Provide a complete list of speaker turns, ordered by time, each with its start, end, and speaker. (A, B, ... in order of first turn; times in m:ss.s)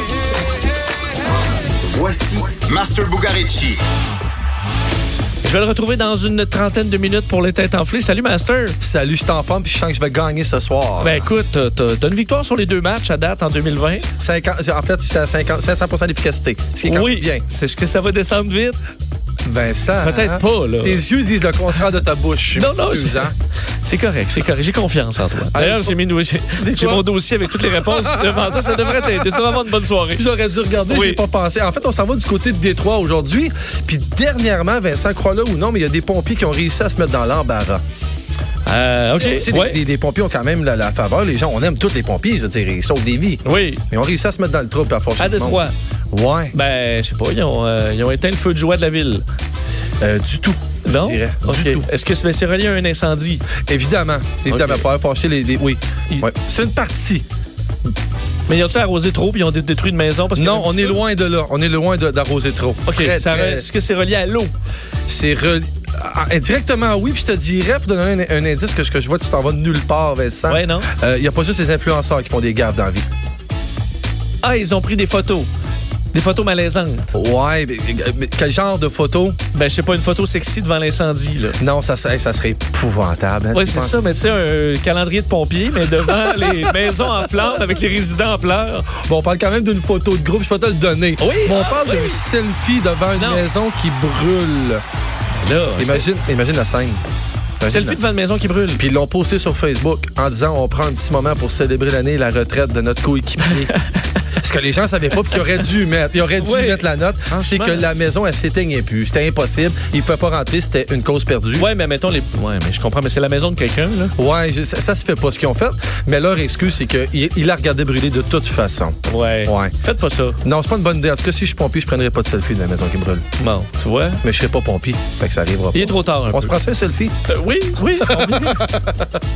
0:01.8-0:03.8 A
0:05.4-0:08.8 B
0:08.8-0:11.2 C
0:11.0-0:14.1 B
0:14.2-0:17.4 C
0:16.8-0:18.8 B
0:19.4-0:23.3 C
0:20.0-0:21.0 B
0:22.5-0:23.3 B
0:23.8-0:30.2 B
0:25.5-0:26.0 C
0:26.5-0:29.4 C
0:30.2-0:37.8 C
0:30.9-0:31.2 B
0:38.6-0:39.8 B
0:39.2-0:46.6 C
0:43.4-0:43.8 B
0:45.2-0:45.7 B
0:46.5-0:49.2 B
0:50.0-0:51.9 C
0:50.8-0:53.4 B
0:53.7-0:57.2 C
0:54.5-0:54.8 B
0:58.5-1:01.0 B
1:00.3-1:03.7 C
1:02.8-1:04.5 B
1:05.1-1:13.0 C
1:10.5-1:10.9 B
1:14.4-1:15.5 B
1:16.1-1:17.1 B
1:17.1-1:19.4 C
1:19.5-1:21.6 B
1:21.6-1:24.4 C
1:23.5-1:28.9 B
1:26.1-1:27.1 C
1:28.9-1:34.8 C
1:31.2-1:32.2 B
1:33.2-1:33.5 B
1:35.4-1:36.1 B
1:35.8-1:37.0 C
1:37.6-1:38.0 C
1:37.7-1:38.8 B
1:38.8-1:43.7 C
1:44.3-1:51.7 C
1:46.4-1:47.9 B
1:51.6-1:54.1 B
1:54.2-1:59.7 C
1:59.0-2:00.4 B
2:00.4-2:03.2 C
2:03.4-2:04.2 B
2:04.2-2:07.1 C
2:05.7-2:06.5 B
2:07.3-2:08.7 B
2:08.0-2:09.0 C